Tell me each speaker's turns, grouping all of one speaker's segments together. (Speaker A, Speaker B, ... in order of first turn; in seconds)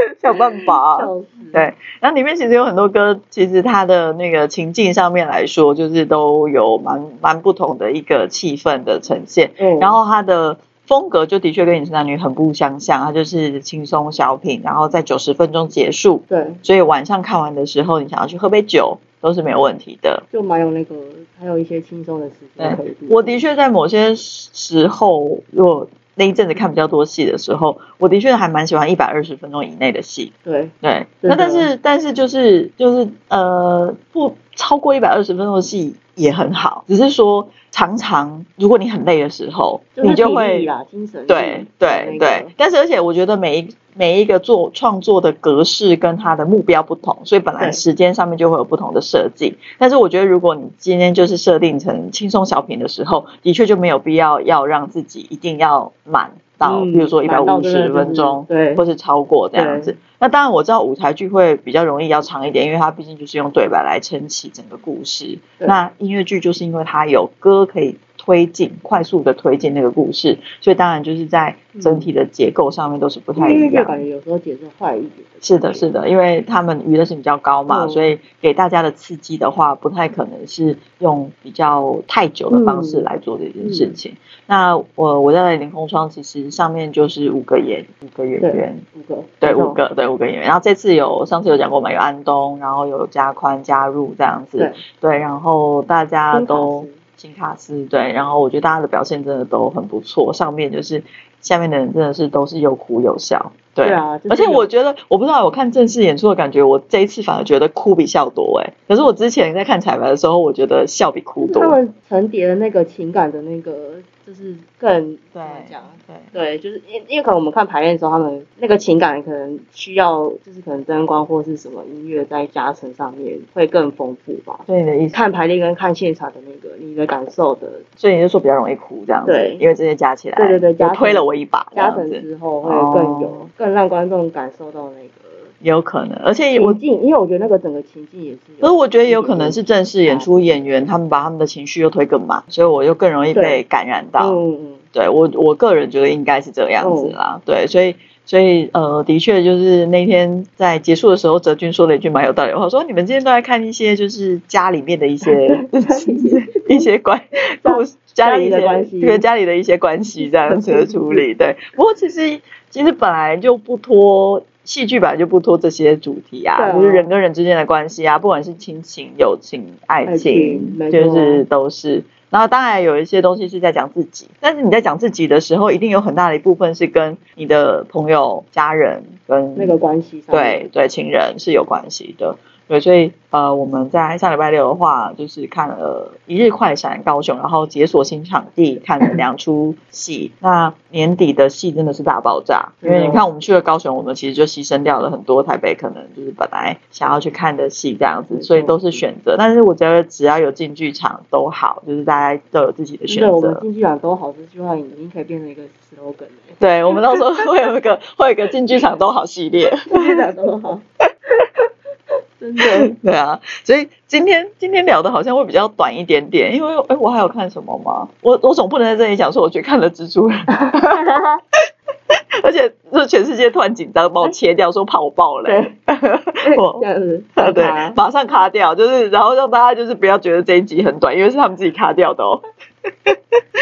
Speaker A: 0.2-20.2, 22.6-40.7, 41.3-74.0, 75.4-88.8, 89.4-111.8, 115.3-116.3, 124.7-125.2, 128.0-133.5, 135.6-136.8, 138.6-144.4, 144.9-179.8, 180.3-203.6, 206.6-210.2, 212.6-221.0, 222.4-226.8, 227.4-232.4
Speaker B: 0.3-1.7, 9.6-10.0, 16.3-16.6, 20.3-23.4, 30.4-31.7, 40.0-42.5, 56.6-58.8, 59.5-59.9, 71.7-72.1, 73.3-75.9, 77.7-78.2, 82.5-83.1, 83.6-84.0, 88.4-89.8, 96.3-97.0, 103.8-104.7, 111.4-127.8, 129.2-129.6, 130.3-135.5, 136.5-140.6, 143.3-143.6, 144.2-144.8, 146.8-147.2, 155.2-156.9, 157.6-159.2, 160.2-161.2, 166.6-167.1, 170.1-171.4, 179.6-180.7, 192.8-193.2, 198.3-199.0, 203.1-206.6, 209.9-210.8, 212.4-212.9, 220.5-221.4, 225.4-225.7, 226.4-228.0